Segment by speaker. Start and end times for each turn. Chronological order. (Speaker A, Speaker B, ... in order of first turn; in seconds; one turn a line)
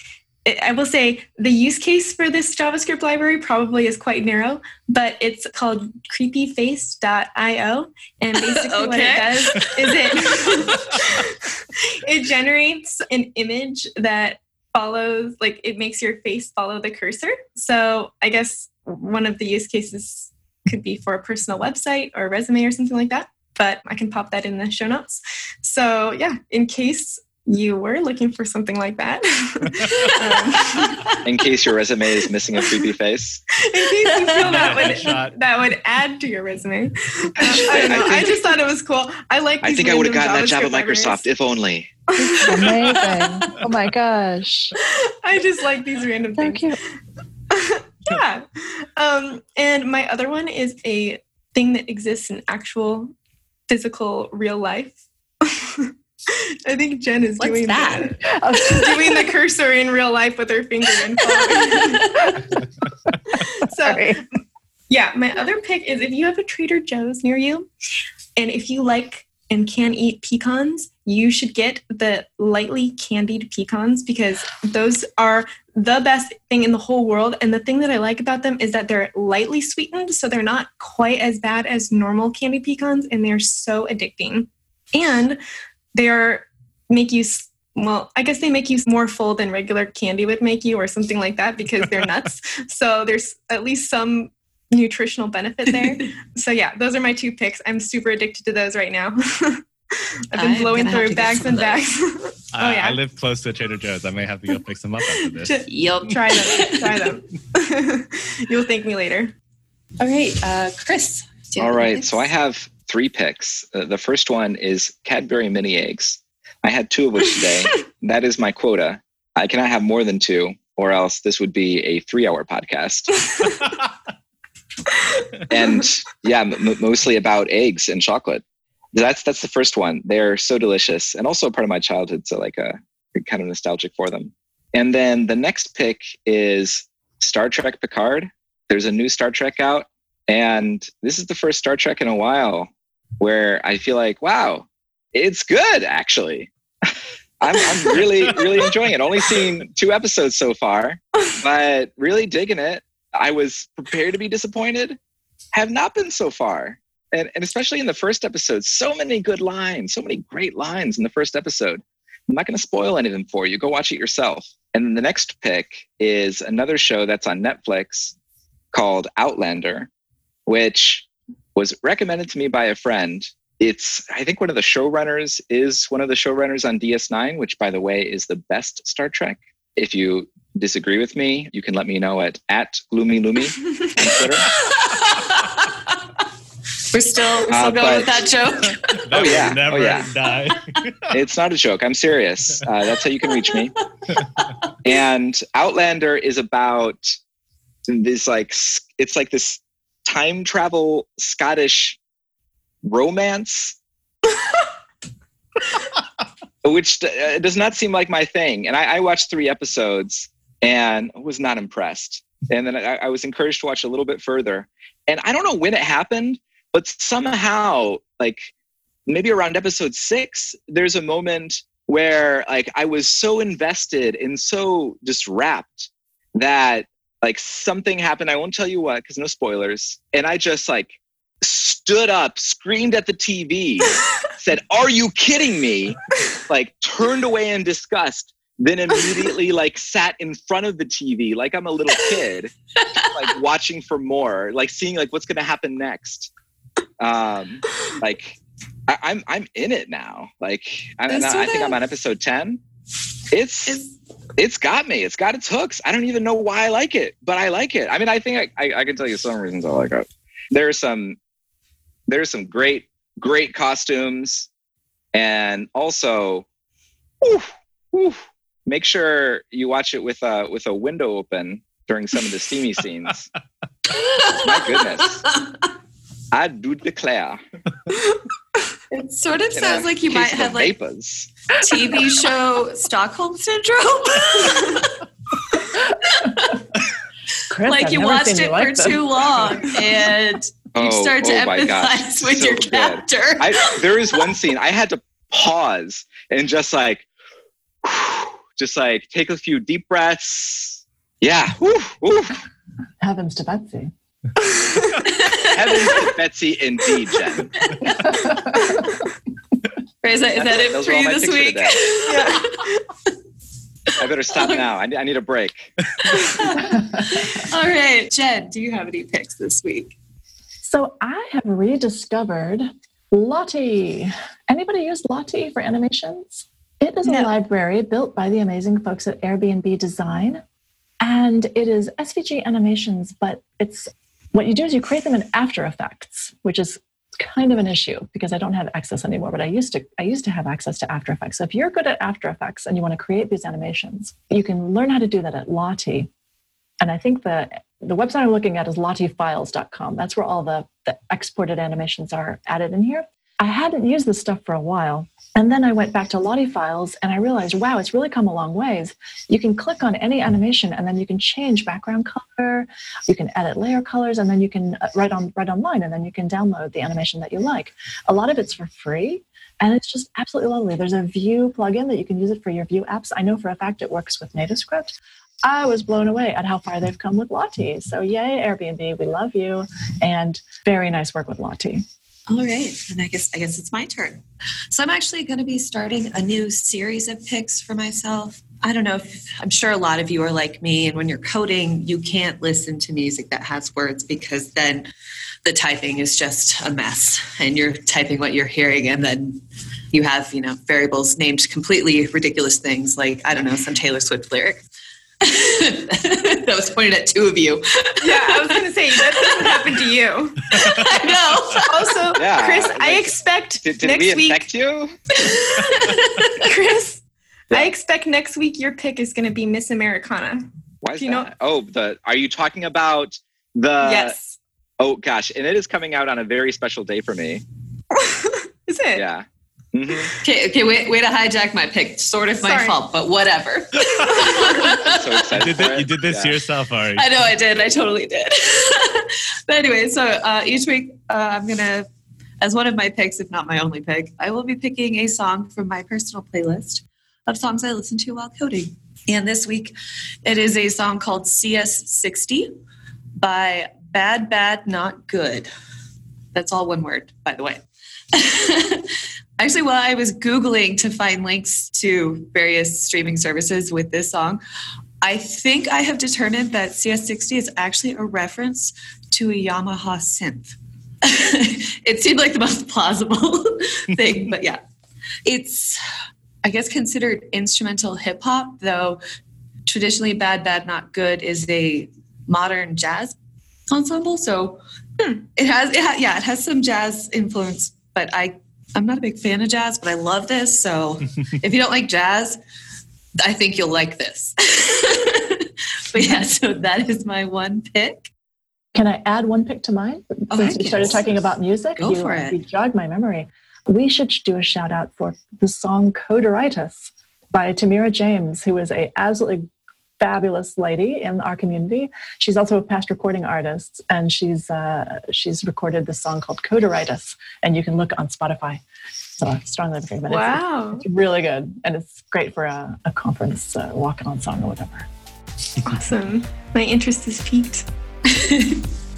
Speaker A: 0.4-31.2
Speaker B: 8.4-10.9
Speaker C: 29.7-30.1
Speaker D: 31.2-33.4
Speaker A: 33.6-41.2
Speaker C: 34.2-35.3
Speaker B: 34.3-34.9
Speaker D: 37.5-38.4
Speaker D: 39.6-41.9
Speaker A: 42.1-42.7
Speaker E: 42.2-44.7
Speaker A: 44.8-46.8
Speaker E: 46.4-46.8
Speaker A: 47.5-53.1
Speaker A: 53.7-62.6
Speaker B: 57.4-58.1
Speaker E: 58.2-59.3
Speaker B: 61.8-62.3
Speaker A: 63.3-64.2
Speaker E: 63.8-64.2
Speaker A: 64.9-67.7
Speaker A: 68.4-85.4
Speaker A: 85.9-103.0
Speaker B: 100.3-101.8
Speaker C: 102.5-105.6
Speaker A: 105.2-109.3
Speaker B: 105.7-107.1
Speaker B: 110.0-112.3
Speaker D: 111.6-123.2
Speaker D: 125.5-128.4
Speaker D: 128.9-146.5
Speaker D: 147.4-155.0
Speaker D: 155.5-168.1
Speaker D: 168.7-169.9
Speaker D: 170.5-184.5
Speaker B: 184.6-185.7
Speaker B: 186.9-189.0
Speaker D: 187.5-188.2
Speaker C: 188.9-191.1
Speaker D: 189.1-190.1
Speaker B: 190.3-190.8
Speaker D: 191.1-193.7
Speaker B: 194.1-194.7
Speaker D: 194.8-197.2
Speaker D: 197.9-202.0
Speaker D: 202.8-203.8
Speaker D: 206.6-218.5
Speaker D: 219.1-242.5
Speaker B: 242.8-243.1
Speaker D: 243.1-246.3
Speaker D: 247.0-252.6
Speaker B: 251.1-251.8
Speaker D: 253.3-253.8
Speaker B: 253.7-253.9
Speaker D: 254.4-261.2
Speaker D: 262.1-264.5
Speaker D: 265.1-266.4
Speaker D: 267.2-273.3
Speaker B: 273.9-274.8
Speaker D: 274.3-275.2
Speaker D: 276.3-277.4
Speaker B: 278.9-280.7
Speaker D: 279.5-281.3
Speaker B: 281.6-285.0
Speaker B: 286.0-286.6
Speaker E: 287.5-289.7
Speaker B: 287.6-294.2
Speaker D: 290.7-297.1
Speaker D: 297.8-302.4
Speaker E: 303.0-303.9
Speaker A: 304.4-304.9
Speaker B: 305.0-305.9
Speaker D: 305.3-307.5
Speaker E: 307.8-308.8
Speaker A: 308.5-308.9
Speaker B: 310.0-312.7
Speaker D: 310.4-311.8
Speaker A: 312.1-312.8
Speaker D: 313.9-315.7
Speaker B: 314.3-314.6
Speaker B: 316.1-320.0
Speaker E: 320.6-330.4
Speaker E: 331.0-346.1
Speaker E: 346.8-381.8
Speaker B: 382.3-394.9
Speaker B: 395.4-404.6
Speaker B: 405.2-409.8
Speaker A: 408.0-414.4
Speaker B: 410.5-412.0
Speaker D: 412.1-414.9
Speaker B: 415.2-416.4
Speaker A: 415.4-420.5
Speaker D: 420.8-424.1
Speaker A: 421.0-421.3
Speaker A: 423.8-424.4
Speaker D: 424.8-427.4
Speaker A: 427.9-429.0
Speaker D: 428.9-430.1
Speaker B: 430.2-434.9
Speaker A: 432.4-432.8
Speaker A: 434.4-434.6
Speaker D: 434.8-436.4
Speaker C: 435.4-437.1
Speaker B: 436.9-441.9
Speaker B: 442.4-449.7
Speaker B: 450.2-452.5
Speaker B: 453.2-455.5
Speaker B: 456.3-464.4
Speaker B: 465.0-474.6
Speaker B: 475.2-475.8
Speaker B: 476.4-479.0
Speaker B: 479.6-483.1
Speaker B: 483.7-484.6
Speaker B: 485.2-492.4
Speaker B: 493.2-498.1
Speaker E: 498.7-509.5
Speaker B: 500.3-501.1
Speaker B: 501.8-502.4
Speaker E: 510.0-518.6
Speaker E: 519.2-524.9
Speaker A: 520.1-520.8
Speaker A: 525.6-527.7
Speaker B: 528.1-528.6